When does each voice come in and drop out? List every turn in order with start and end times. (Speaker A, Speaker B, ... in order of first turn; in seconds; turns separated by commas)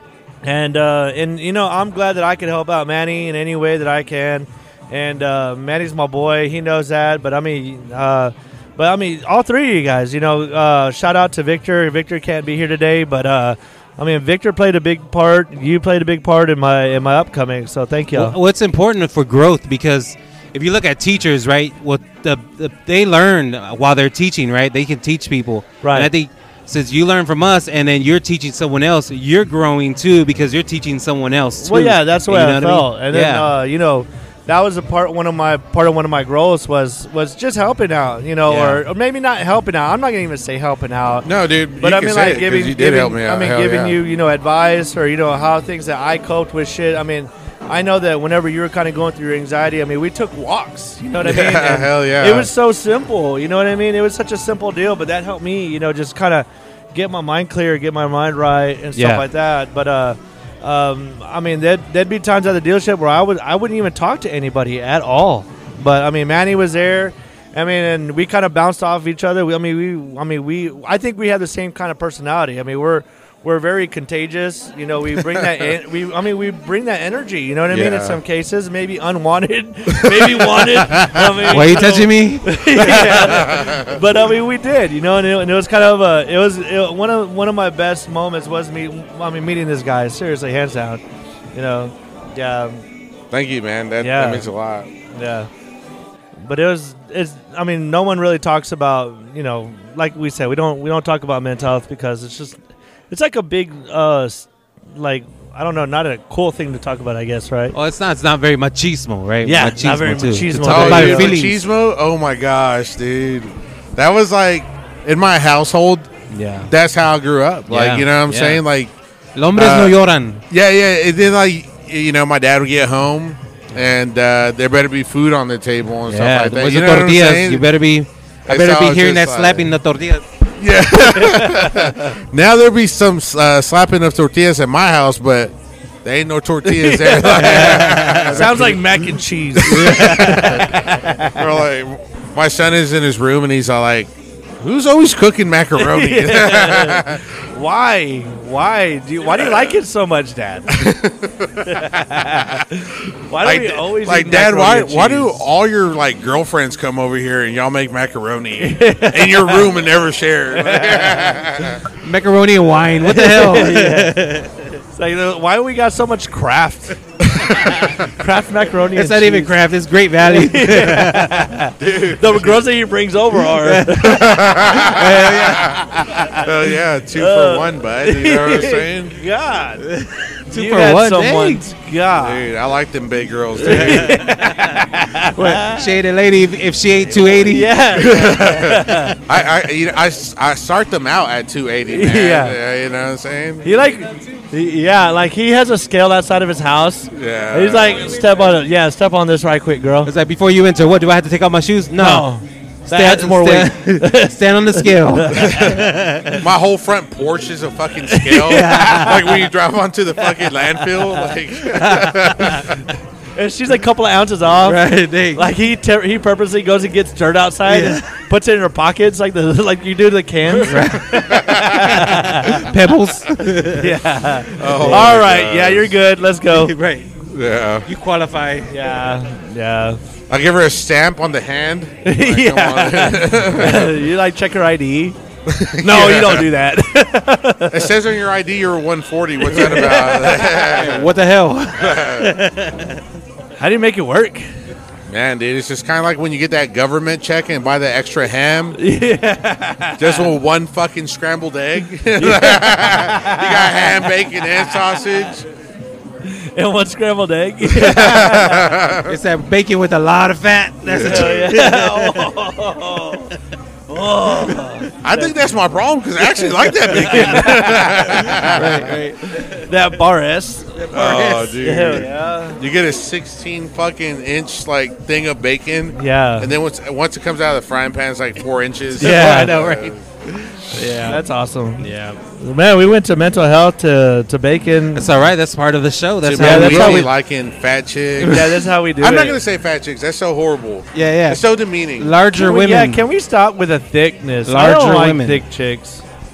Speaker A: 0.4-18.4, Speaker B: 18.1-33.5, Speaker A: 25.8-26.1, Speaker A: 31.6-91.0, Speaker B: 38.5-38.8, Speaker C: 41.2-44.0, Speaker C: 51.2-52.5, Speaker B: 59.0-59.2, Speaker C: 77.7-78.2, Speaker C: 79.9-80.5, Speaker B: 81.0-83.5, Speaker C: 82.9-84.0, Speaker A: 91.5-92.8, Speaker C: 93.3-94.9, Speaker A: 94.0-94.5, Speaker A: 95.1-95.5, Speaker A: 96.4-102.6, Speaker A: 103.1-107.8, Speaker B: 107.7-111.6, Speaker A: 109.4-111.3, Speaker C: 110.7-116.1, Speaker B: 116.3-116.7, Speaker C: 116.7-118.9, Speaker B: 117.7-118.6, Speaker B: 119.4-120.4, Speaker C: 119.5-127.7, Speaker B: 126.1-130.3, Speaker C: 128.5-129.7, Speaker C: 130.6-139.0, Speaker A: 131.1-132.1, Speaker A: 136.6-141.5, Speaker B: 137.4-138.7, Speaker C: 139.6-140.6, Speaker B: 139.6-140.7, Speaker C: 141.3-147.2, Speaker A: 145.8-150.9, Speaker C: 150.7-152.6, Speaker A: 151.6-155.4, Speaker C: 153.4-161.8, Speaker A: 158.6-159.8, Speaker A: 160.5-161.5, Speaker B: 161.9-164.7, Speaker A: 163.1-164.4, Speaker A: 164.9-169.5, Speaker B: 168.9-171.5, Speaker A: 170.3-176.5, Speaker C: 171.8-172.6, Speaker B: 173.5-176.1, Speaker C: 174.0-179.2, Speaker A: 177.2-179.9, Speaker B: 179.8-181.6, Speaker A: 180.5-182.4, Speaker C: 182.2-184.2, Speaker A: 183.6-185.9, Speaker B: 183.7-184.6, Speaker B: 185.3-187.9, Speaker A: 187.2-189.2, Speaker C: 187.9-193.8, Speaker A: 191.9-192.6, Speaker A: 193.6-200.1, Speaker C: 197.1-198.1, Speaker B: 200.1-202.3, Speaker A: 202.0-205.8, Speaker B: 202.9-206.4, Speaker C: 205.4-205.8, Speaker C: 206.4-212.8, Speaker A: 208.1-209.2, Speaker B: 208.4-209.3, Speaker B: 211.7-212.7, Speaker A: 213.4-222.7, Speaker B: 214.6-215.5, Speaker B: 217.7-218.1, Speaker B: 220.5-224.0, Speaker C: 221.1-222.1, Speaker A: 223.8-226.7, Speaker C: 224.6-225.9, Speaker B: 224.6-225.2, Speaker B: 226.5-227.2, Speaker C: 227.3-227.9, Speaker B: 227.9-228.9, Speaker A: 228.7-230.0, Speaker C: 230.3-234.0, Speaker A: 232.0-235.2, Speaker C: 235.5-236.5, Speaker A: 235.8-237.9, Speaker C: 237.7-241.1, Speaker A: 239.4-240.8, Speaker B: 240.4-243.0, Speaker C: 241.8-242.4, Speaker A: 243.6-244.5, Speaker C: 245.1-248.8, Speaker A: 248.8-250.3, Speaker C: 250.0-255.4, Speaker A: 252.2-255.3, Speaker A: 256.2-258.7, Speaker C: 257.6-259.2, Speaker B: 259.1-262.4, Speaker C: 260.9-261.6, Speaker A: 260.9-263.3, Speaker A: 263.9-265.4, Speaker B: 264.2-264.8, Speaker C: 265.0-269.0, Speaker A: 266.4-272.6, Speaker B: 267.0-269.7, Speaker C: 270.9-280.0, Speaker B: 270.9-271.5, Speaker A: 276.0-276.5, Speaker A: 278.9-279.8, Speaker B: 279.0-281.2, Speaker C: 280.6-281.0, Speaker A: 281.0-285.1, Speaker B: 281.8-282.2, Speaker B: 284.9-287.1, Speaker C: 286.2-292.1, Speaker A: 286.4-287.1, Speaker A: 288.2-289.4, Speaker B: 288.2-288.5, Speaker B: 290.9-291.4, Speaker B: 292.0-293.0, Speaker A: 292.3-296.0, Speaker B: 294.5-295.4